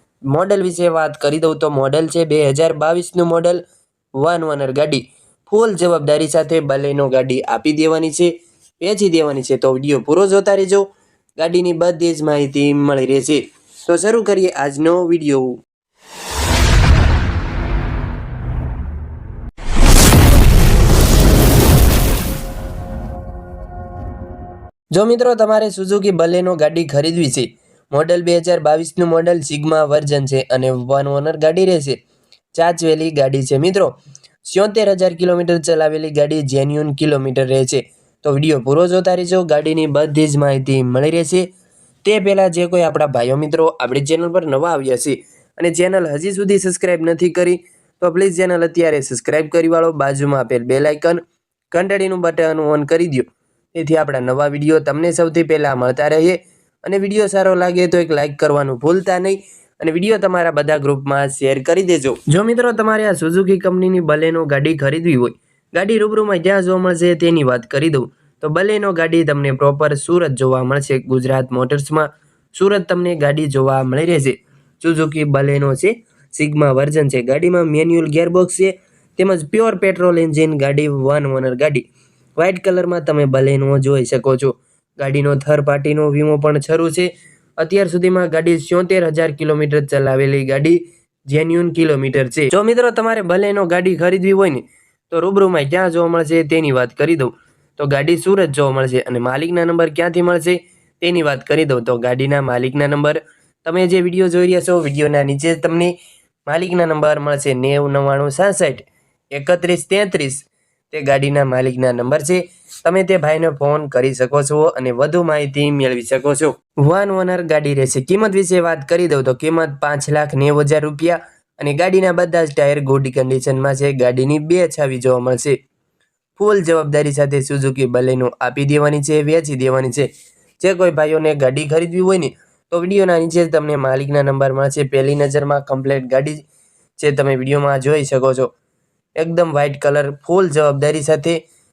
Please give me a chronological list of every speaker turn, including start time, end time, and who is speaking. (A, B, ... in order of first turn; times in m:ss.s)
0:00.3-0:03.6 A
0:04.2-0:10.8 A
0:11.4-0:15.6 A
0:24.9-0:32.0 A
0:32.5-0:33.9 A
0:34.4-0:41.5 A
0:42.0-1:21.8 A
1:22.4-1:45.9 A
1:46.4-2:05.6 A
2:06.4-2:10.1 A
2:10.6-2:16.4 A
2:17.0-2:18.5 A
2:19.2-2:21.4 A